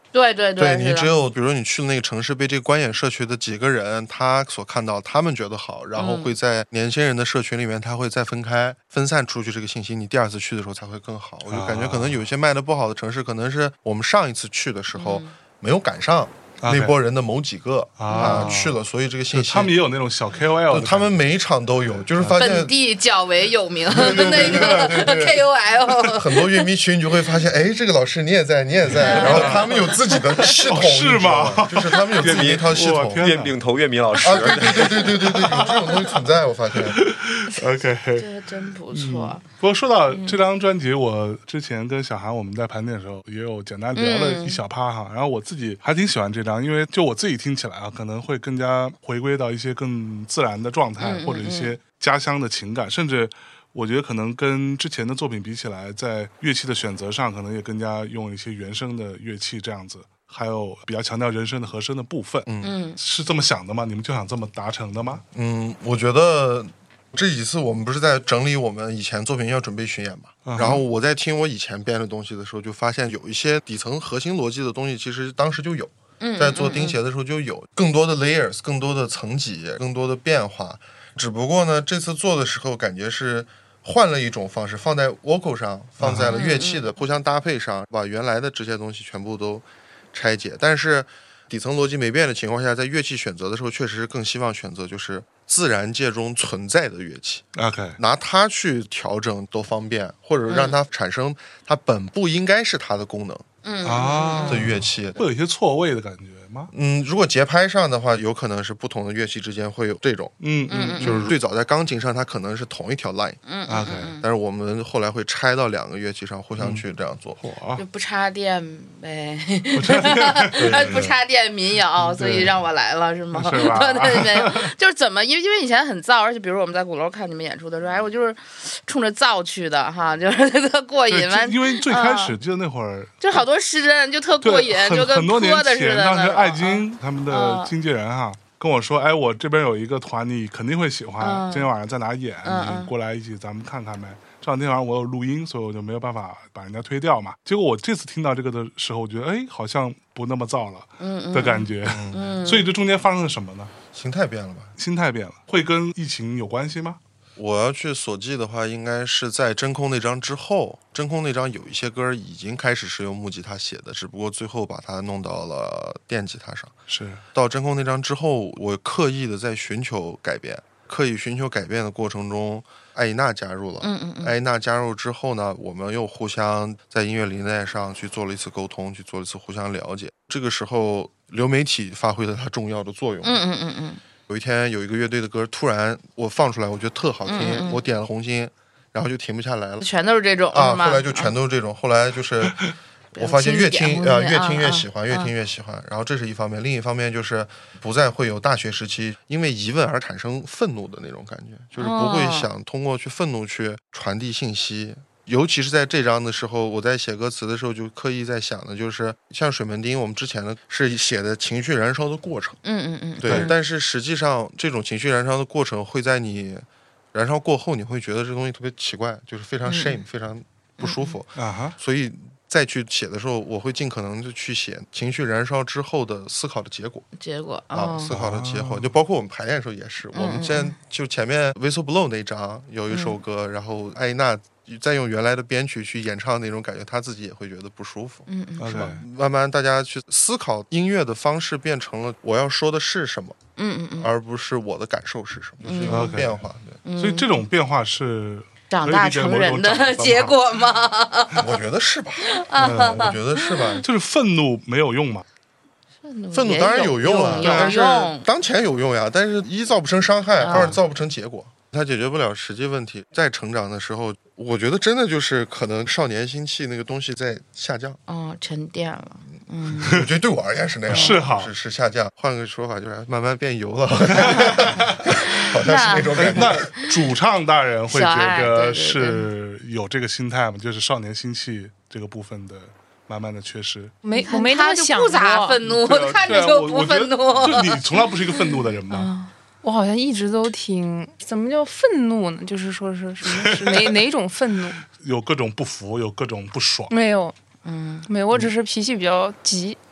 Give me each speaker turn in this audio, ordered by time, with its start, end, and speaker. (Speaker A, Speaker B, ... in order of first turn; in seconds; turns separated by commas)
Speaker A: 0.1-1.1, Speaker B: 0.6-19.8, Speaker A: 6.0-6.3, Speaker C: 11.5-12.2, Speaker A: 14.9-15.3, Speaker C: 16.6-16.9, Speaker C: 18.0-18.8, Speaker A: 18.1-18.5, Speaker C: 19.3-21.2, Speaker B: 20.7-22.7, Speaker C: 22.2-22.4, Speaker A: 22.4-26.7, Speaker C: 23.9-25.4, Speaker B: 23.9-25.5, Speaker B: 26.0-33.3, Speaker C: 28.9-29.9, Speaker A: 29.0-29.8, Speaker C: 30.7-33.6, Speaker D: 32.2-35.1, Speaker B: 34.2-37.0, Speaker C: 35.1-36.1, Speaker C: 36.9-38.3, Speaker A: 38.2-39.4, Speaker C: 38.9-65.2, Speaker A: 40.1-40.4, Speaker A: 44.0-44.6, Speaker A: 51.0-51.8, Speaker B: 62.5-62.8, Speaker A: 62.6-63.0, Speaker B: 65.3-103.5, Speaker C: 70.5-70.8, Speaker A: 70.6-70.8, Speaker A: 76.2-77.0, Speaker C: 86.0-86.4, Speaker A: 86.3-86.9, Speaker C: 97.6-98.0, Speaker A: 100.5-100.8, Speaker A: 103.6-104.7, Speaker C: 103.8-106.7, Speaker B: 104.4-105.2, Speaker B: 106.7-110.4, Speaker C: 110.4-111.3, Speaker A: 110.7-111.3, Speaker B: 111.0-113.4, Speaker A: 113.5-114.2, Speaker C: 113.7-114.2, Speaker B: 114.2-117.4, Speaker C: 117.4-117.8, Speaker A: 117.8-132.4, Speaker C: 119.8-121.1, Speaker B: 120.6-121.1, Speaker C: 122.0-122.5, Speaker C: 123.3-124.7, Speaker C: 131.1-133.4, Speaker A: 133.2-137.7, Speaker C: 134.4-153.7, Speaker A: 141.2-141.7, Speaker A: 142.4-142.9, Speaker A: 151.0-152.7, Speaker B: 151.8-152.2, Speaker B: 153.9-154.8, Speaker C: 154.8-157.0, Speaker B: 157.4-166.8, Speaker C: 166.9-167.2, Speaker B: 167.3-183.4, Speaker A: 173.8-174.3, Speaker A: 183.2-184.0, Speaker B: 184.3-189.9, Speaker A: 187.3-187.8, Speaker A: 189.8-191.3, Speaker B: 190.5-212.6, Speaker A: 193.1-195.3, Speaker A: 201.8-202.5, Speaker A: 212.7-213.6, Speaker B: 213.2-227.1, Speaker C: 213.3-213.5, Speaker A: 219.7-220.0, Speaker A: 220.8-221.2, Speaker C: 221.4-221.8, Speaker A: 227.2-228.1, Speaker B: 227.7-243.4, Speaker C: 228.1-228.8, Speaker A: 230.1-230.7, Speaker A: 232.9-233.2, Speaker A: 238.3-238.8, Speaker C: 238.6-239.0, Speaker A: 243.6-244.1, Speaker B: 244.0-246.8, Speaker A: 245.6-246.2, Speaker C: 245.9-246.3, Speaker A: 246.8-247.5, Speaker C: 247.0-250.3, Speaker A: 248.7-251.5, Speaker B: 251.4-253.9, Speaker A: 252.3-253.8, Speaker C: 252.6-253.1, Speaker C: 253.8-255.2, Speaker A: 256.0-258.3, Speaker B: 256.3-268.0, Speaker C: 257.2-257.7, Speaker C: 260.4-260.8, Speaker A: 260.4-260.8, Speaker A: 268.1-270.1, Speaker B: 269.8-276.7, Speaker C: 270.9-271.5, Speaker A: 270.9-271.2, Speaker C: 274.1-275.1, Speaker A: 275.5-276.8, Speaker C: 276.1-283.9, Speaker A: 277.9-279.3, Speaker E: 284.0-285.6, Speaker A: 284.1-289.3, Speaker C: 285.6-289.1, Speaker E: 289.6-294.8, Speaker C: 293.2-294.0, Speaker C: 295.0-296.9, Speaker E: 296.9-297.4, Speaker A: 297.6-298.1, Speaker E: 298.1-299.8